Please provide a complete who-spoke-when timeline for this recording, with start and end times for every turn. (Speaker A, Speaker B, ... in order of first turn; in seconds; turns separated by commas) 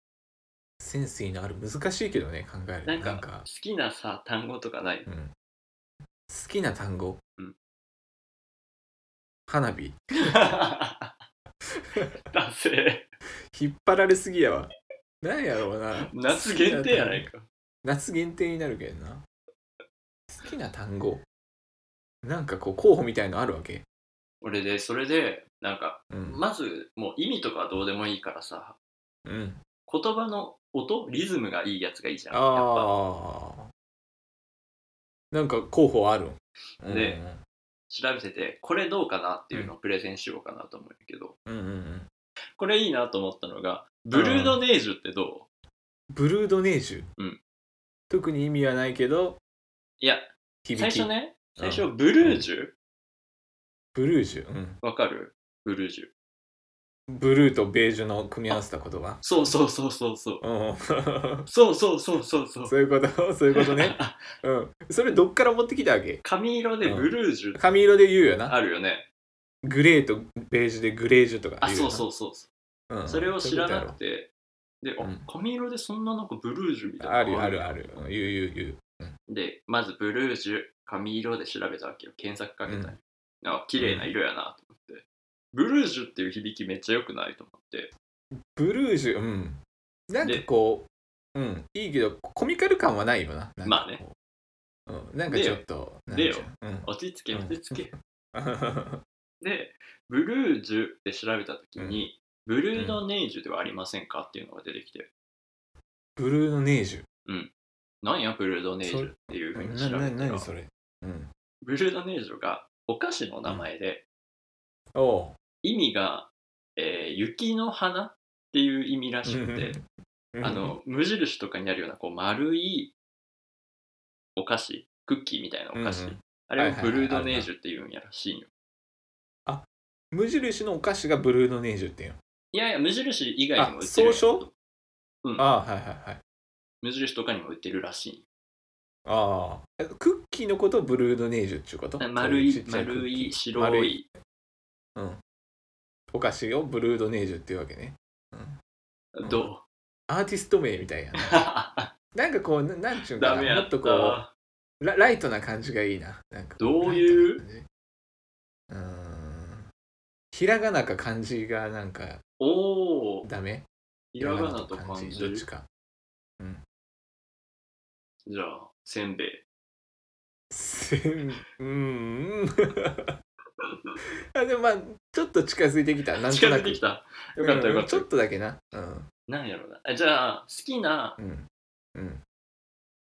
Speaker A: 0.8-3.5, Speaker B: 2.9-5.1, Speaker A: 5.1-5.3, Speaker A: 6.3-7.2, Speaker A: 9.5-10.4, Speaker B: 10.2-11.2, Speaker B: 12.3-13.1, Speaker A: 13.5-14.7, Speaker A: 15.2-17.3, Speaker B: 16.1-17.5, Speaker A: 17.8-19.2, Speaker A: 20.3-21.2, Speaker A: 22.2-23.8, Speaker B: 24.4-28.8, Speaker A: 26.1-26.4, Speaker A: 29.3-29.6, Speaker B: 29.9-33.0, Speaker A: 32.3-33.7, Speaker A: 35.3-37.4, Speaker B: 36.9-37.2, Speaker B: 37.9-41.4, Speaker A: 41.5-42.1, Speaker B: 42.6-45.5, Speaker A: 44.1-44.6, Speaker A: 46.1-47.1, Speaker A: 48.1-49.4, Speaker B: 50.0-52.8, Speaker A: 50.6-52.4, Speaker A: 54.0-54.8, Speaker B: 54.8-56.1, Speaker A: 57.1-59.2, Speaker B: 59.2-60.4, Speaker A: 60.4-61.5, Speaker B: 61.5-62.8, Speaker A: 62.7-66.2, Speaker B: 63.5-64.3, Speaker B: 66.2-67.7, Speaker A: 66.8-68.6, Speaker B: 68.5-69.1, Speaker A: 69.6-72.0, Speaker B: 71.6-72.5, Speaker A: 72.9-74.0, Speaker B: 73.1-78.0, Speaker A: 75.0-75.3, Speaker A: 77.0-79.2, Speaker B: 79.3-87.9, Speaker A: 82.7-82.9, Speaker A: 83.8-84.1, Speaker A: 88.5-94.1, Speaker B: 93.7-94.0, Speaker A: 94.9-99.0, Speaker B: 95.3-98.0, Speaker B: 99.4-105.1, Speaker A: 101.8-102.0, Speaker A: 102.8-103.0, Speaker A: 106.2-107.1, Speaker B: 107.3-107.5, Speaker B: 108.0-110.5, Speaker A: 108.8-111.3, Speaker B: 111.6-114.0, Speaker A: 115.0-115.4, Speaker B: 115.6-119.8, Speaker A: 119.3-120.7, Speaker B: 120.4-122.9, Speaker B: 124.4-128.5, Speaker A: 125.8-127.5, Speaker A: 129.5-132.2, Speaker B: 132.5-134.5, Speaker A: 133.6-134.4, Speaker A: 135.4-136.2, Speaker B: 136.8-138.2, Speaker A: 139.1-144.0, Speaker B: 142.0-144.1, Speaker A: 144.9-145.2, Speaker A: 146.1-148.6, Speaker B: 149.2-149.6, Speaker A: 150.1-151.4, Speaker B: 151.2-151.9, Speaker A: 152.1-154.2, Speaker B: 153.2-154.3, Speaker A: 154.8-157.7, Speaker B: 156.6-157.4, Speaker A: 158.7-159.7, Speaker A: 160.3-162.2, Speaker B: 162.4-163.3, Speaker A: 163.2-163.7, Speaker B: 164.1-165.5, Speaker A: 164.2-165.7, Speaker B: 168.3-169.4, Speaker A: 170.5-173.2, Speaker B: 173.6-173.9, Speaker A: 174.3-176.8, Speaker B: 176.2-178.1, Speaker A: 177.4-179.1, Speaker B: 179.3-181.2, Speaker A: 181.2-182.2